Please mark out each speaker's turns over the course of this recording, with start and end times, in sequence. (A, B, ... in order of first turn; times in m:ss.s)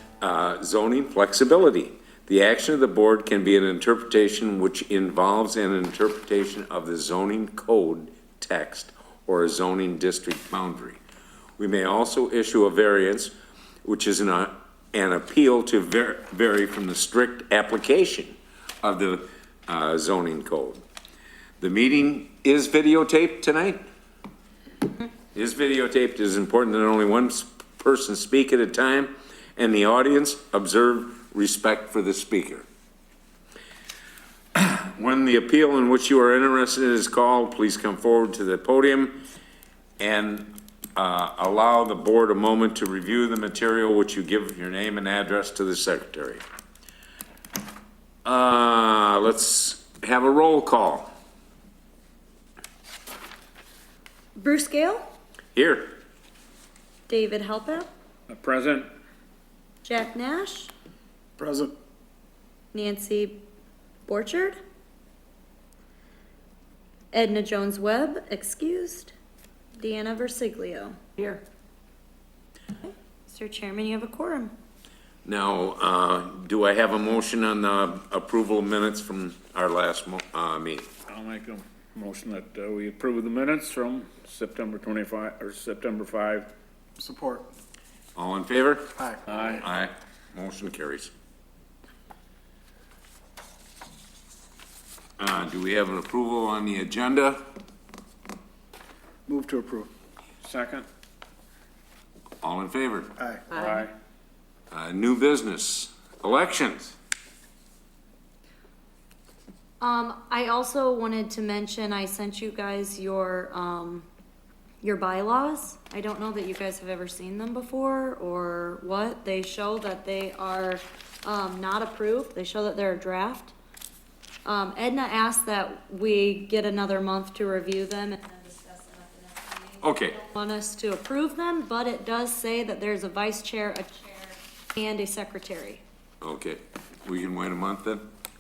0:00.2-0:11.0 A
0:11.6-0:20.8 A
0:21.6-0:23.8 A
0:25.3-0:32.7 A
0:34.6-0:39.2 A
0:40.0-0:46.4 A
0:48.2-0:51.1 A
0:54.4-0:55.0 B
0:55.5-0:56.0 A
0:57.1-0:57.9 B
0:58.3-0:58.9 C
0:59.8-1:00.7 B
1:01.4-1:01.7 D
1:02.7-1:03.4 B
1:04.1-1:04.6 B
1:07.1-1:09.1 B
1:09.8-1:11.0 B
1:12.8-1:14.5 B
1:15.2-1:20.9 A
1:21.1-1:26.5 C
1:27.0-1:27.5 D
1:28.1-1:28.9 A
1:28.9-1:29.6 D
1:29.3-1:29.6 C
1:29.6-1:31.1 A
1:35.2-1:37.4 A
1:39.3-1:39.9 D
1:40.4-1:40.9 C
1:42.4-1:43.1 A
1:43.2-1:43.4 D
1:43.5-1:43.9 C
1:44.7-1:46.9 A
1:49.8-1:54.1 B
1:54.8-2:03.5 B
2:04.4-2:15.8 B
2:09.8-2:10.2 A
2:16.2-2:18.1 A